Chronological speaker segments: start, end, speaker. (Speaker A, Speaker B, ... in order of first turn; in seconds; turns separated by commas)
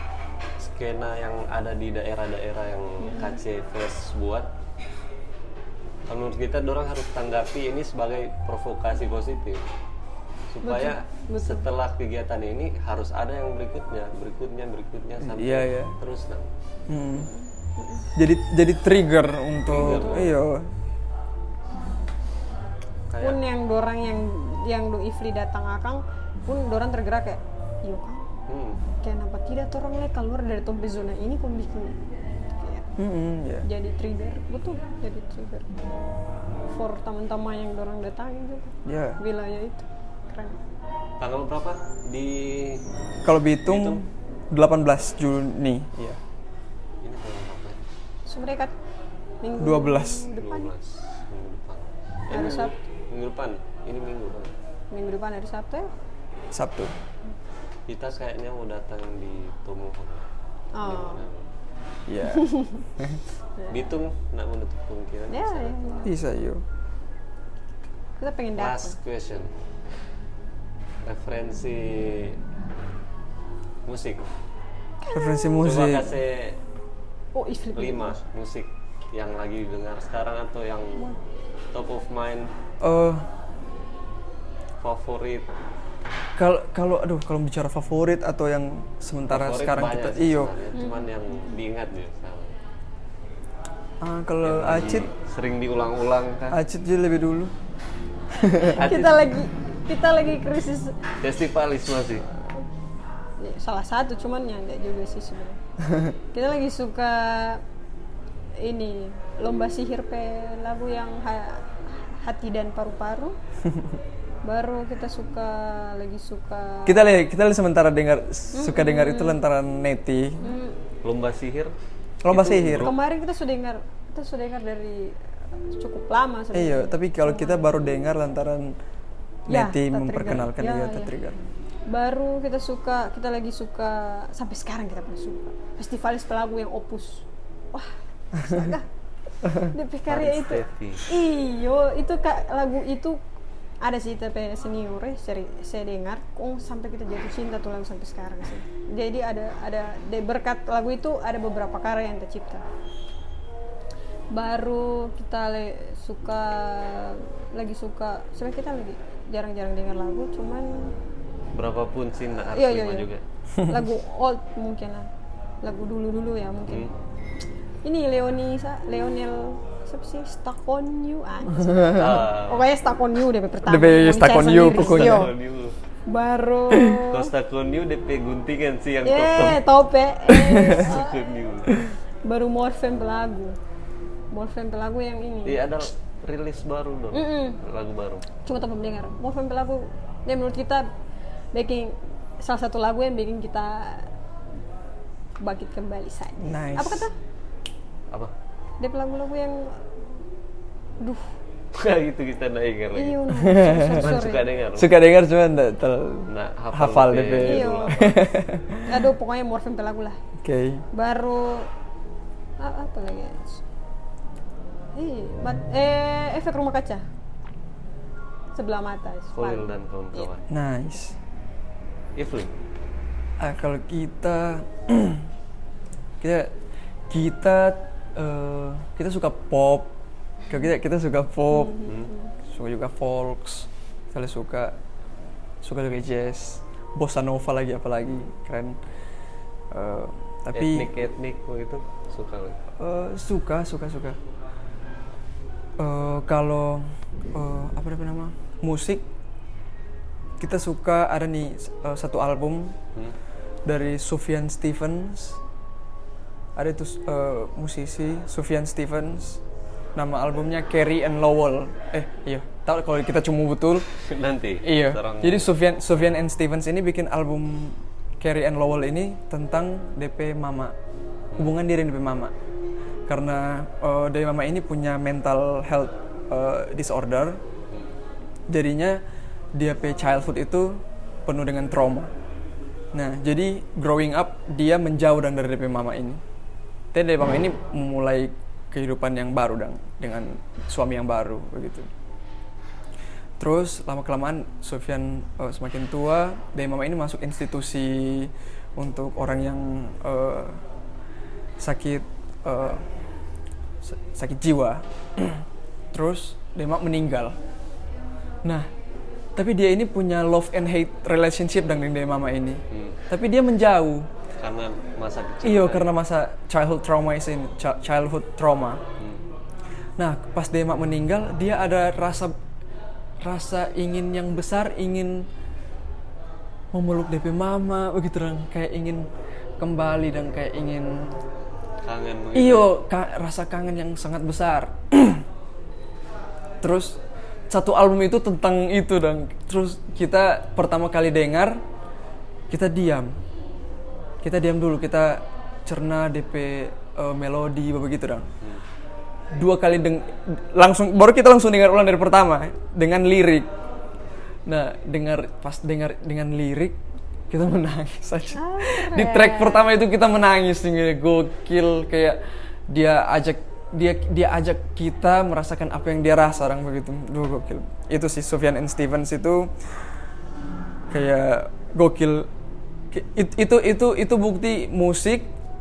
Speaker A: 0.6-4.5, Speaker B: 3.0-3.4, Speaker A: 6.1-9.6, Speaker A: 10.5-16.5, Speaker B: 10.6-11.7, Speaker C: 15.2-16.0, Speaker C: 16.9-17.3, Speaker B: 17.1-18.1, Speaker C: 18.2-20.7, Speaker A: 19.7-20.3, Speaker B: 19.8-20.3, Speaker A: 23.1-23.4, Speaker B: 23.2-28.3, Speaker A: 28.5-28.8, Speaker B: 28.9-32.9, Speaker C: 33.0-33.7, Speaker B: 33.6-35.7, Speaker B: 36.7-40.6, Speaker C: 38.9-39.2, Speaker A: 41.2-42.8, Speaker C: 43.2-46.2, Speaker A: 43.6-44.0, Speaker A: 47.0-47.8, Speaker B: 48.3-48.7, Speaker B: 49.4-50.7, Speaker C: 49.6-50.3, Speaker A: 50.4-54.5, Speaker B: 52.3-52.8, Speaker B: 54.9-55.9, Speaker C: 56.5-56.9, Speaker A: 57.9-60.2, Speaker B: 60.7-61.3, Speaker A: 60.8-61.5, Speaker C: 62.1-63.2, Speaker B: 62.3-62.9, Speaker B: 63.6-63.9, Speaker A: 63.7-65.8, Speaker B: 65.3-66.1, Speaker C: 66.0-66.6, Speaker B: 68.2-69.0, Speaker A: 68.6-69.5, Speaker A: 71.0-72.4, Speaker A: 73.9-74.2, Speaker B: 75.0-75.7, Speaker C: 75.1-76.2, Speaker A: 75.6-76.6, Speaker B: 77.3-78.2, Speaker A: 77.8-81.0, Speaker A: 81.7-82.5, Speaker C: 82.8-83.3, Speaker A: 84.8-85.5, Speaker C: 86.4-90.5, Speaker A: 89.3-92.5, Speaker B: 90.8-91.1, Speaker C: 94.0-95.1, Speaker A: 94.4-96.6, Speaker C: 96.5-97.5, Speaker C: 98.3-98.8, Speaker B: 98.6-101.0, Speaker A: 98.8-99.2, Speaker A: 101.2-102.2, Speaker B: 103.4-105.6, Speaker B: 106.3-107.6, Speaker B: 108.6-113.4, Speaker C: 113.7-114.0, Speaker B: 114.4-117.0, Speaker C: 116.8-120.4, Speaker B: 118.5-119.4, Speaker B: 120.4-120.8, Speaker A: 121.0-121.8, Speaker C: 122.2-122.9, Speaker A: 122.3-123.0, Speaker B: 122.8-125.2, Speaker B: 125.7-128.1, Speaker C: 126.5-128.7, Speaker C: 129.5-131.4, Speaker B: 129.5-131.1, Speaker B: 131.9-138.9, Speaker C: 139.4-139.7, Speaker B: 139.6-143.2, Speaker A: 140.1-141.1, Speaker B: 143.8-152.7, Speaker B: 154.3-160.9, Speaker A: 161.5-163.2, Speaker B: 162.5-163.1, Speaker B: 163.7-165.1, Speaker B: 165.6-166.9, Speaker A: 166.7-166.9, Speaker B: 167.8-175.3, Speaker C: 171.5-172.3, Speaker A: 172.0-172.7, Speaker C: 173.7-175.3, Speaker A: 174.6-175.8, Speaker B: 176.1-177.3, Speaker C: 176.7-177.0, Speaker A: 177.1-179.7, Speaker B: 179.0-181.2, Speaker C: 180.4-180.8, Speaker A: 180.7-181.7, Speaker B: 182.2-183.6, Speaker B: 184.3-185.6, Speaker A: 185.5-188.2, Speaker B: 187.1-187.6, Speaker B: 188.4-190.9, Speaker B: 191.5-194.1, Speaker B: 195.4-197.1, Speaker C: 196.4-197.1, Speaker B: 198.8-199.8, Speaker B: 201.0-201.3, Speaker A: 201.7-203.2, Speaker B: 202.9-204.4, Speaker C: 203.4-204.2, Speaker A: 203.8-204.9, Speaker C: 204.8-208.8, Speaker A: 206.3-208.0, Speaker B: 207.4-208.2, Speaker B: 208.9-210.2, Speaker C: 210.4-210.8, Speaker B: 210.9-211.7, Speaker B: 212.6-213.6, Speaker B: 214.9-217.1, Speaker B: 218.6-220.3, Speaker A: 219.4-220.4, Speaker C: 220.5-221.2, Speaker A: 222.2-222.5, Speaker C: 223.4-225.3, Speaker C: 226.2-226.5, Speaker C: 227.1-229.9, Speaker C: 230.5-231.8, Speaker B: 231.5-232.3, Speaker C: 232.5-234.8, Speaker C: 235.6-238.8, Speaker C: 239.7-240.9, Speaker A: 240.6-242.6, Speaker C: 242.8-244.2, Speaker C: 245.8-249.1, Speaker C: 250.4-252.8, Speaker C: 253.7-255.4, Speaker C: 256.6-259.4, Speaker C: 260.0-263.9, Speaker A: 264.1-265.5, Speaker C: 264.6-270.8, Speaker C: 271.4-272.3, Speaker C: 273.1-277.4, Speaker C: 278.5-279.0, Speaker C: 279.5-282.1, Speaker C: 282.9-286.2, Speaker C: 286.9-291.9, Speaker C: 293.4-300.6, Speaker C: 301.6-302.9, Speaker C: 303.8-307.4, Speaker C: 308.4-308.7, Speaker C: 309.4-314.1, Speaker A: 312.7-313.0, Speaker A: 314.4-315.9, Speaker C: 315.4-318.8, Speaker C: 320.0-322.4, Speaker C: 323.2-325.3, Speaker C: 326.7-329.1, Speaker C: 329.6-331.2, Speaker A: 331.8-332.7, Speaker C: 332.4-335.2, Speaker C: 336.6-341.6, Speaker C: 342.5-343.2, Speaker C: 344.2-348.3, Speaker C: 349.3-353.5, Speaker C: 354.5-356.8, Speaker C: 357.3-369.5, Speaker B: 358.3-359.7, Speaker C: 370.9-372.3, Speaker C: 372.9-375.3